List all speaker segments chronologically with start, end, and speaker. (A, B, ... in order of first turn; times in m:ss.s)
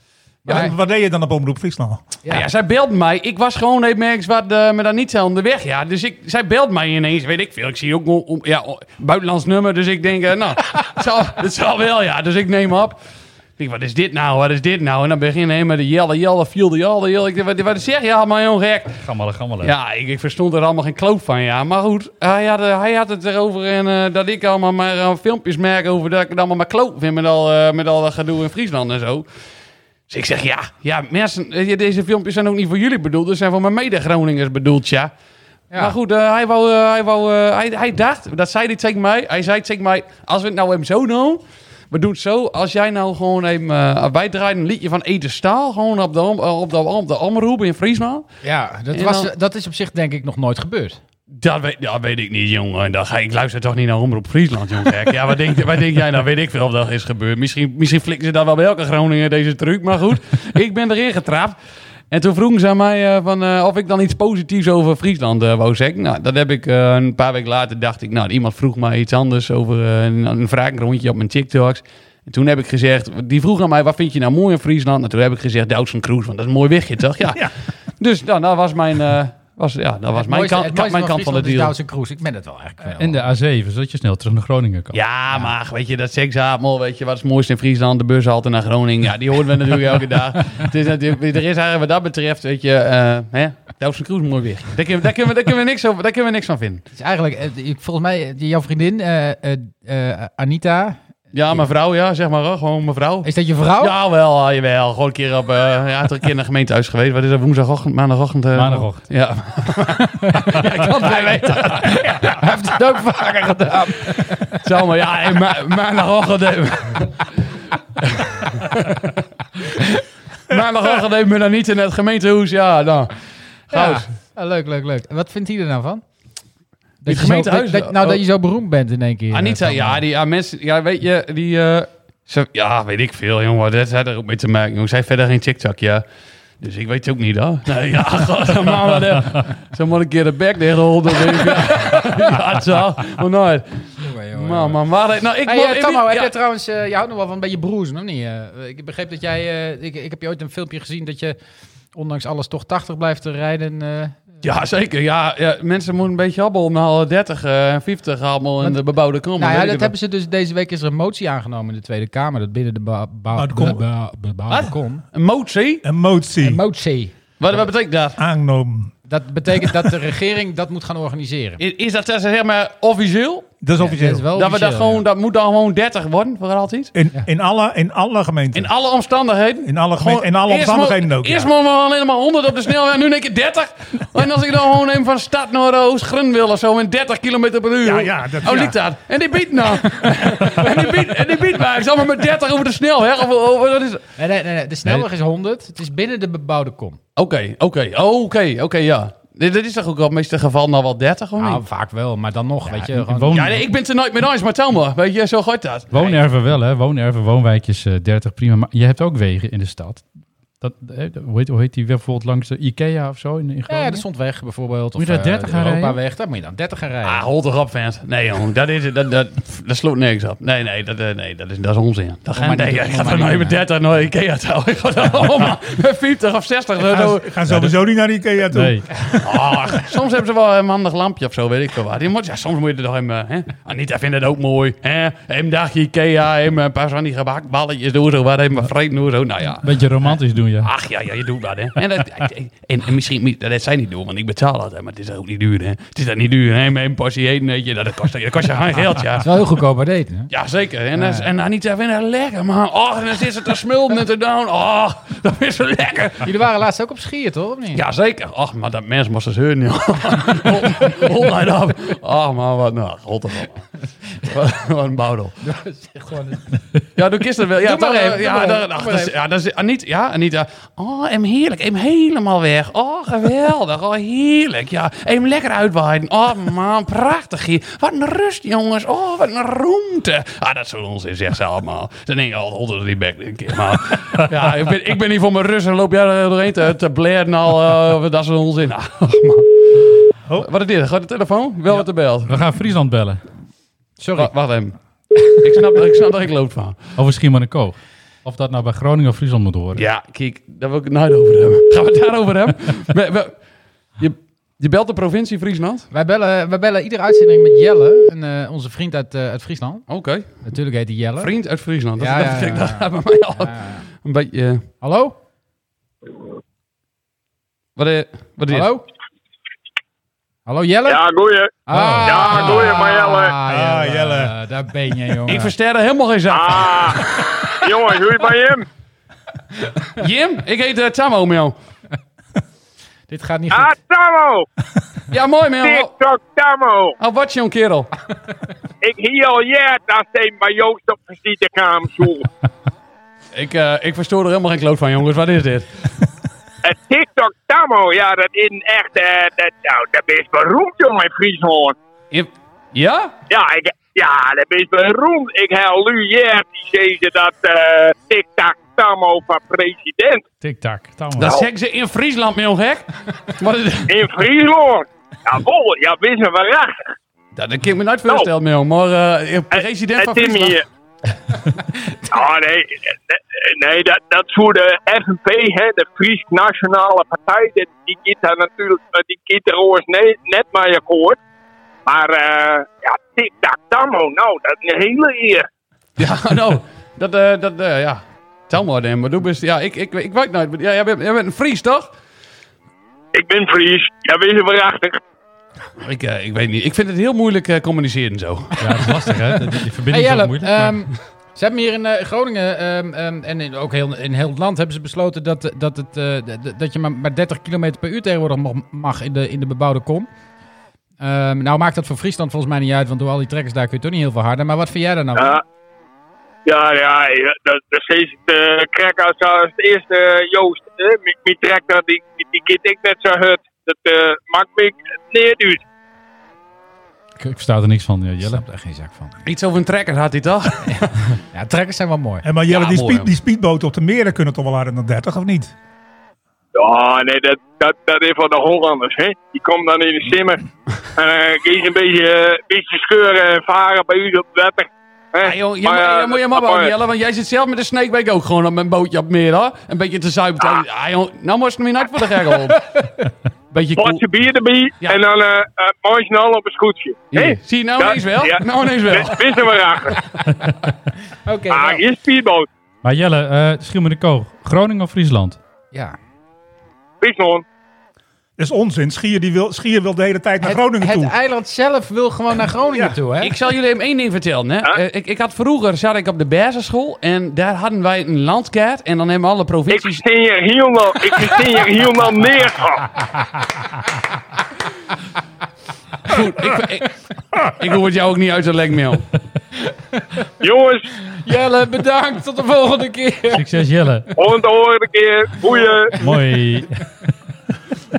0:00.4-0:00.7 A
0:00.5-0:02.2 B
0:02.3-0:13.0 C
0:13.6-0:19.0 C
0:19.0-0:19.7 D
0:19.6-0:29.2 C
0:30.1-0:35.1 C
0:35.7-0:48.3 C
0:48.4-0:51.0 A
0:48.9-0:49.3 C
0:51.3-1:01.6 C
1:02.1-1:21.7 C
1:20.1-1:23.2 A
1:23.0-1:25.0 D
1:24.9-1:36.8 C
1:36.9-1:41.0 A
1:41.3-1:52.0 C
1:43.2-1:43.9 A
1:48.5-1:49.1 D
1:50.0-1:54.6 A
1:54.6-1:57.3 C
1:58.0-1:59.1 C
2:00.5-2:04.0 C
2:03.7-2:06.0 A
2:07.0-2:10.0 A
2:07.0-2:08.2 C
2:09.3-2:16.0 C
2:16.6-2:26.3 C
2:24.0-2:24.8 A
2:25.4-2:31.4 A
2:31.9-2:34.3 A
2:34.4-2:39.9 C
2:39.4-2:45.0 A
2:43.3-2:43.8 B
2:44.5-2:45.8 C
2:45.8-2:46.6 B
2:46.4-2:47.1 A
2:47.4-2:48.2 C
2:48.2-2:48.9 B
2:49.1-2:51.6 A
2:51.6-2:53.5 C
2:53.6-2:54.3 B
2:53.8-2:55.0 A
2:54.3-2:56.9 C
2:56.9-2:58.7 B
2:58.5-3:14.0 C
2:59.6-3:01.5 B
3:07.8-3:08.8 B
3:14.2-3:17.0 A
3:17.2-3:21.6 C
3:21.4-3:23.4 A
3:22.7-3:23.7 D
3:23.3-3:26.2 C
3:25.9-3:30.1 D
3:30.6-3:34.0 D
3:33.7-3:37.2 A
3:35.0-3:36.0 D
3:37.0-3:47.4 C
3:42.4-3:43.6 A
3:46.8-3:49.3 B
3:47.5-3:47.7 D
3:48.5-3:49.0 D
3:49.2-4:09.4 C
3:59.6-4:00.7 D
4:09.2-4:10.3 A
4:10.3-4:16.3 C
4:11.0-4:11.3 A
4:16.2-4:17.8 A
4:17.7-4:23.7 C
4:24.2-4:25.4 C
4:25.4-4:26.6 A
4:27.0-4:52.4 C
4:27.6-4:29.1 A
4:52.3-4:53.2 D
4:54.0-4:54.3 A
4:54.2-4:54.8 C
4:55.4-4:56.8 C
4:57.0-4:59.8 D
4:59.7-5:03.4 C
5:04.0-5:05.9 C
5:05.9-5:09.9 A
5:09.9-5:10.4 C
5:10.4-5:11.3 A
5:11.2-5:14.6 C
5:12.0-5:13.8 A
5:14.8-5:15.2 A
5:17.8-5:18.7 C
5:18.5-5:18.8 A
5:20.4-5:21.0 A
5:20.8-5:23.4 E
5:21.7-5:25.5 A
5:21.7-5:22.6 D
5:23.4-5:24.3 B
5:25.2-5:27.3 C
5:26.3-5:27.0 E
5:27.6-5:28.6 E
5:30.0-5:31.5 C
5:33.1-5:33.8 A
5:33.5-5:34.5 E
5:35.1-5:35.9 C
5:35.6-5:37.0 E
5:37.0-5:37.9 C
5:38.8-5:42.3 E
5:43.3-5:45.7 C
5:46.6-5:51.8 E
5:52.1-5:53.1 C
5:53.3-6:00.3 E
6:00.4-6:01.3 D
6:01.2-6:04.0 C
6:01.2-6:01.5 E
6:03.9-6:06.9 E
6:07.3-6:10.6 C
6:09.5-6:10.6 E
6:12.1-6:21.2 E
6:21.8-6:25.4 E
6:26.0-6:31.9 C
6:33.1-6:35.0 E
6:35.8-6:38.6 C
6:38.6-6:40.8 D
6:39.9-6:50.1 A
6:51.0-6:55.4 A
6:55.2-6:55.4 E
6:56.4-7:05.6 E
7:07.2-7:08.4 D
7:08.2-7:09.2 A
7:09.2-7:11.1 C
7:11.3-7:12.2 A
7:12.2-7:15.5 B
7:12.5-7:13.1 C
7:16.5-7:20.4 E
7:21.0-7:26.7 E
7:25.2-7:32.8 C
7:33.5-7:34.0 C
7:33.8-7:40.0 E
7:37.1-7:39.6 C
7:41.2-7:41.8 A
7:41.5-7:42.5 E
7:42.8-7:45.4 D
7:47.0-7:47.4 E
7:48.4-7:51.1 B
7:50.4-7:53.3 A
7:52.7-7:53.0 B
7:53.2-8:00.0 C
7:59.7-8:02.9 E
8:06.0-8:09.0 C
8:09.9-8:10.2 A
8:10.4-8:10.9 E
8:11.1-8:13.4 A
8:13.3-8:14.1 D
8:14.2-8:16.0 E
8:15.5-8:16.2 A
8:15.9-8:16.7 D